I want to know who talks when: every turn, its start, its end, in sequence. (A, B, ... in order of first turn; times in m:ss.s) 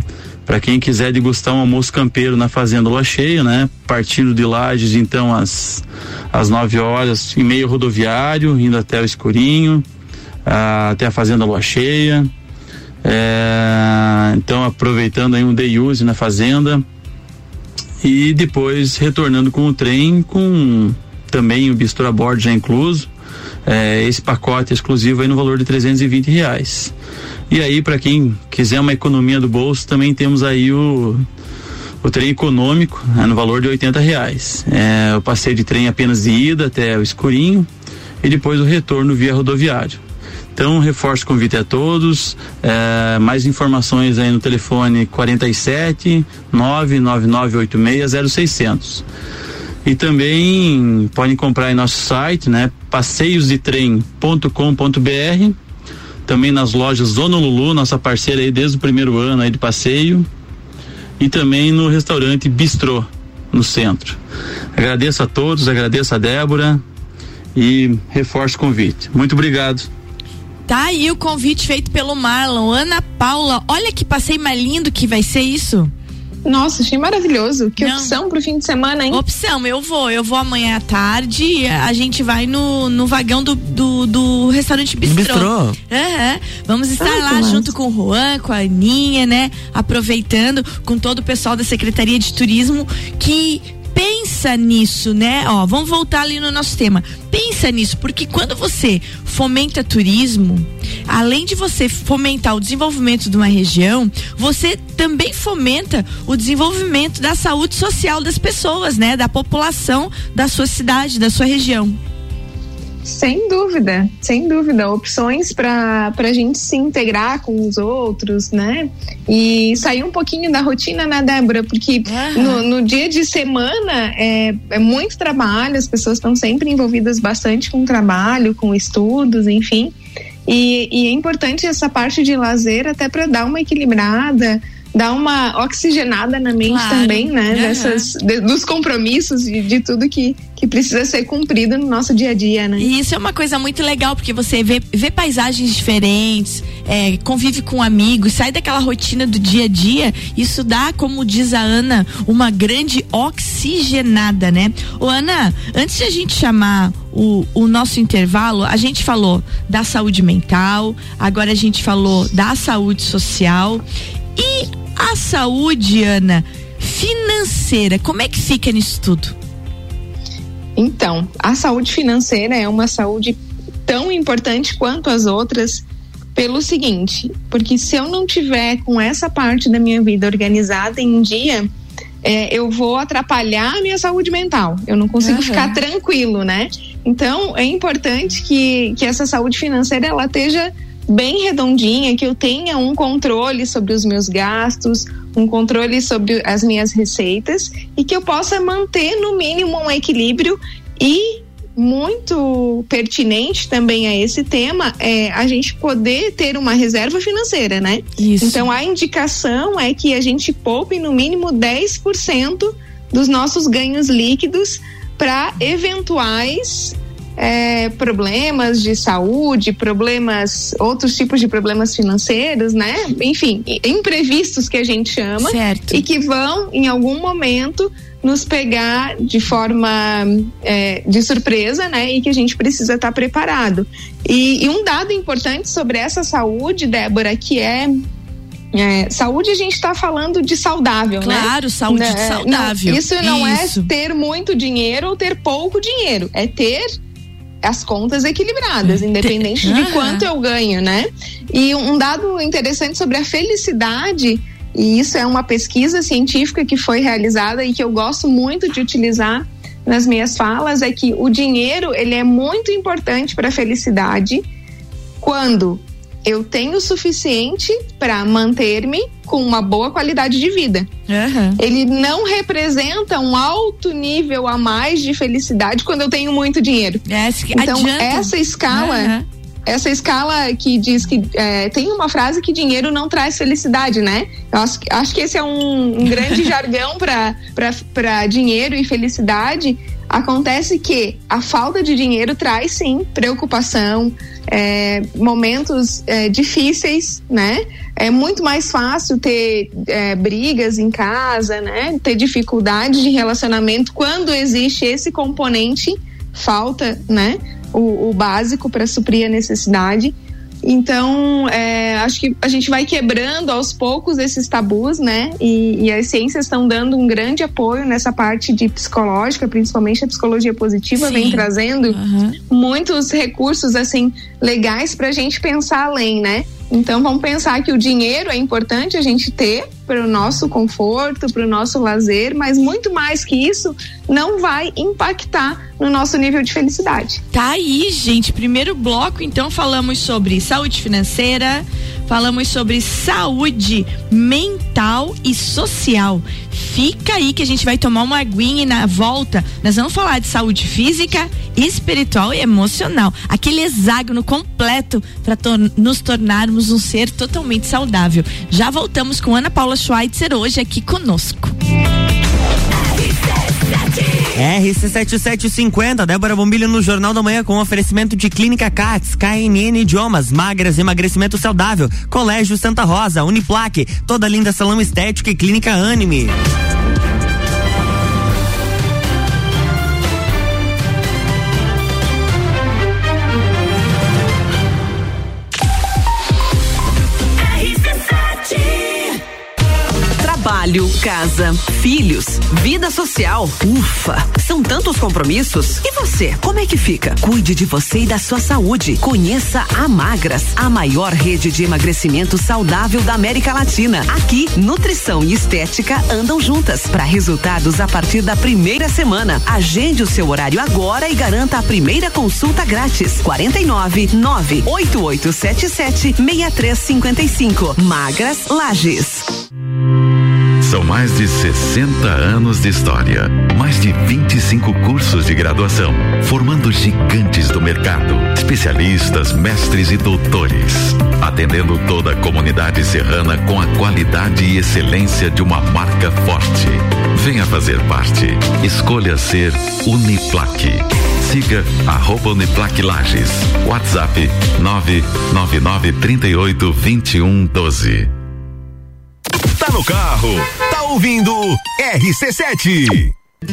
0:00.4-0:09.8 A
0:10.4-0:12.3 A
0:13.0-0:16.8 A
0:18.0-0:23.1 A
0:23.6-0:26.9 A
0:27.5-0:31.2 A
0:32.0-0:37.7 A
0:38.2-0:40.0 A
0:40.5-0:49.0 A
0:49.8-0:55.5 A
0:56.2-1:00.3 A
1:01.2-1:04.2 A
1:04.8-1:06.8 A
1:07.5-1:09.9 A
1:10.7-1:15.9 B
1:16.4-1:19.2 C
1:17.8-1:18.1 B
1:19.1-1:52.0 B
1:25.0-1:25.8 D
1:27.0-1:27.7 C
1:53.0-2:09.9 C
2:02.0-2:02.6 B
2:10.5-2:22.9 C
2:16.6-2:18.1 B
2:22.8-2:43.8 B
2:44.4-2:49.3 B
2:50.8-2:55.8 C
2:56.3-3:01.7 C
3:02.2-3:57.9 C
3:05.2-3:05.8 B
3:28.2-3:28.7 B
3:45.4-3:46.0 B
3:58.7-4:06.8 C
4:01.2-4:03.9 B
4:07.6-4:24.4 C
4:08.8-4:10.3 B
4:25.2-4:30.9 C
4:31.1-4:31.6 B
4:31.6-4:37.0 C
4:37.1-4:39.2 B
4:37.5-4:39.1 C
4:39.6-5:22.0 C
5:21.0-5:22.4 B
5:22.5-5:37.2 C
5:37.3-6:01.5 B
6:04.3-6:16.3 D
6:30.2-6:59.4 E
7:00.6-7:28.1 F
7:29.6-7:33.1 G